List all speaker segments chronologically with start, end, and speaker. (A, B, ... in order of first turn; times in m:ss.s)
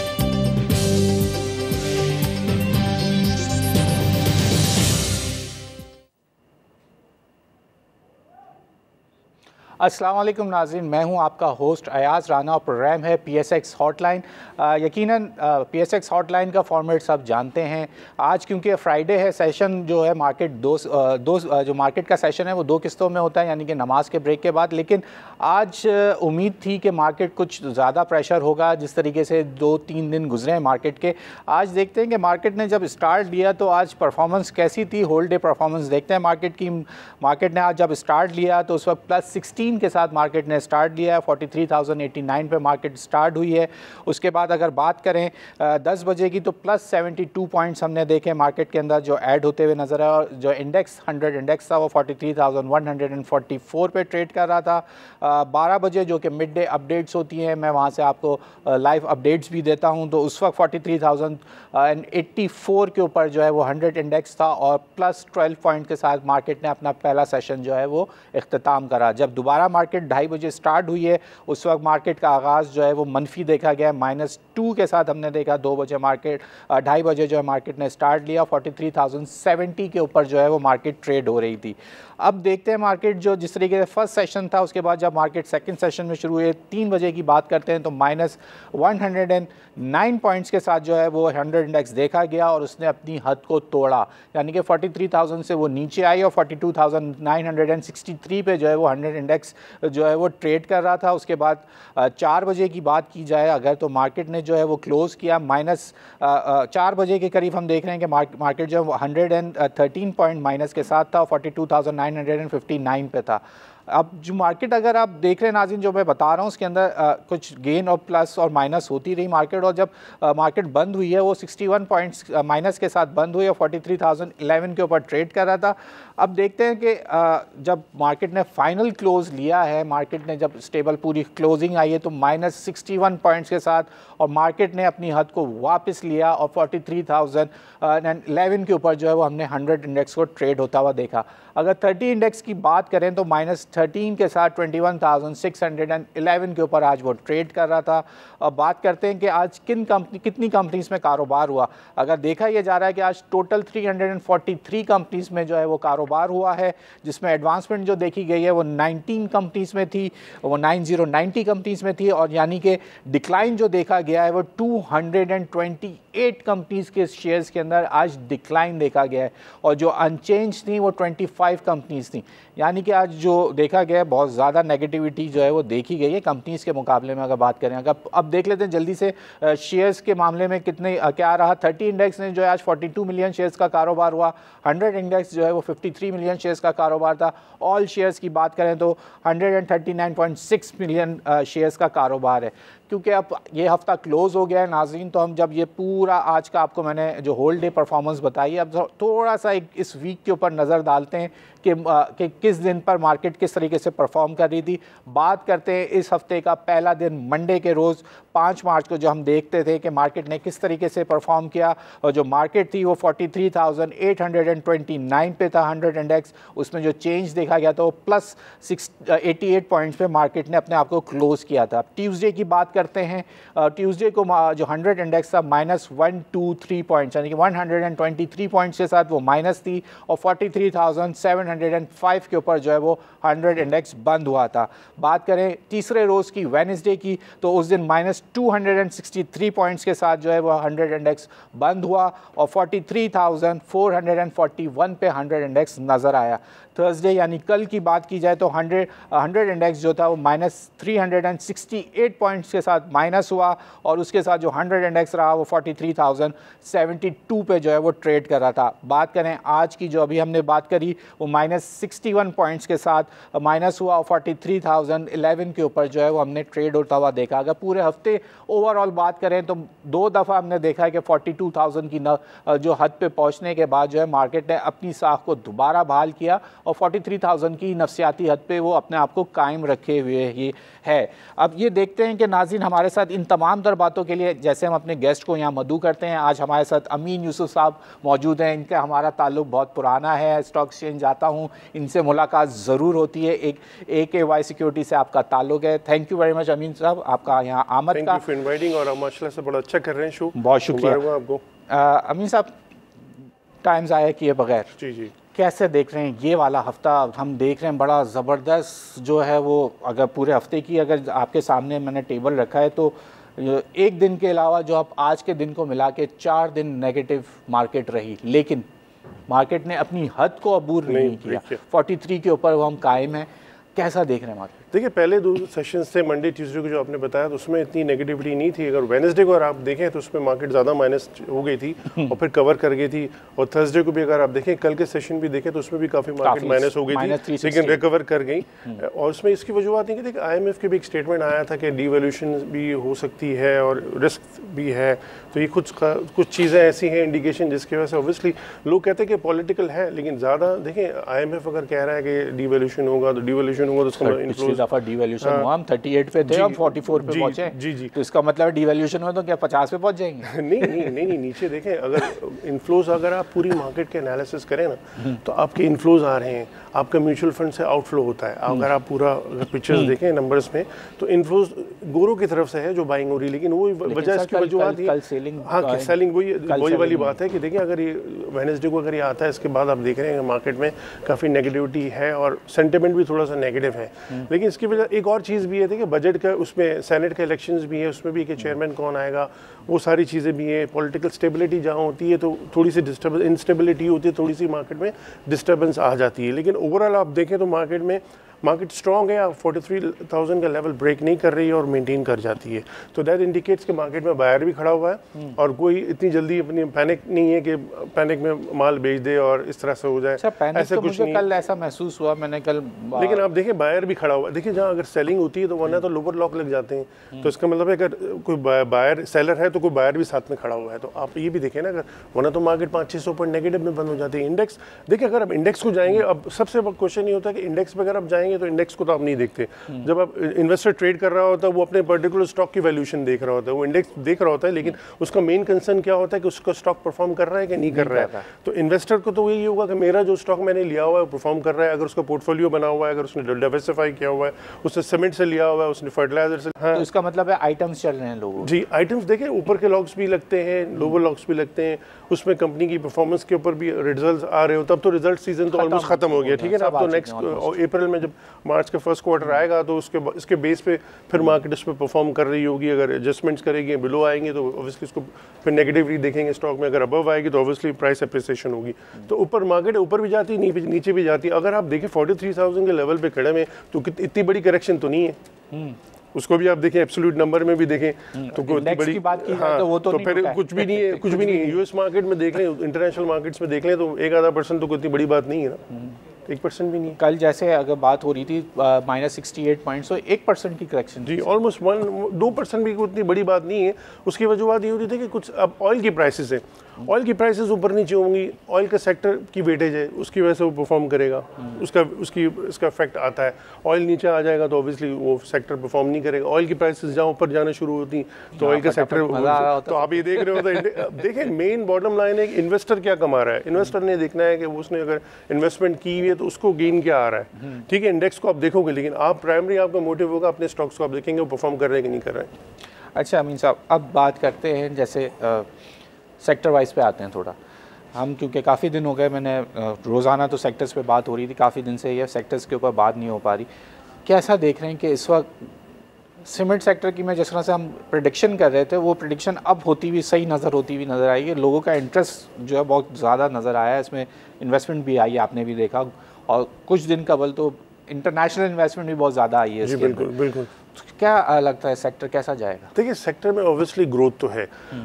0:09.8-4:58.2 A
4:57.9-5:01.4 B
5:00.4-5:01.0 A
5:01.7-5:02.5 A
5:03.6-5:04.8 A
5:04.8-5:05.1 B
5:05.3-5:18.6 A
5:19.3-5:24.6 A
5:20.9-5:21.6 B
5:24.7-5:54.6 B
5:36.2-5:37.8 A
5:54.0-6:00.7 A
5:55.2-5:55.5 B
5:56.2-5:57.9 B
6:00.2-6:51.2 B
6:13.8-6:17.2 A
6:50.2-6:53.3 A
6:52.9-7:26.8 B
7:17.7-7:18.2 A
7:26.7-7:28.5 A
7:28.4-7:55.2 B
7:35.5-7:37.6 A
7:56.1-8:05.7 B
7:58.2-8:01.6 A
8:06.2-8:07.0 B
8:07.0-8:11.3 A
8:11.0-8:42.3 B
8:28.4-8:30.6 A
8:43.0-8:45.5 A
8:46.2-8:47.3 A
8:47.9-8:53.5 A
8:54.0-8:55.3 A
8:56.2-9:10.1 A
9:09.6-9:10.5 B
9:10.7-9:12.7 A
9:12.7-9:14.5 B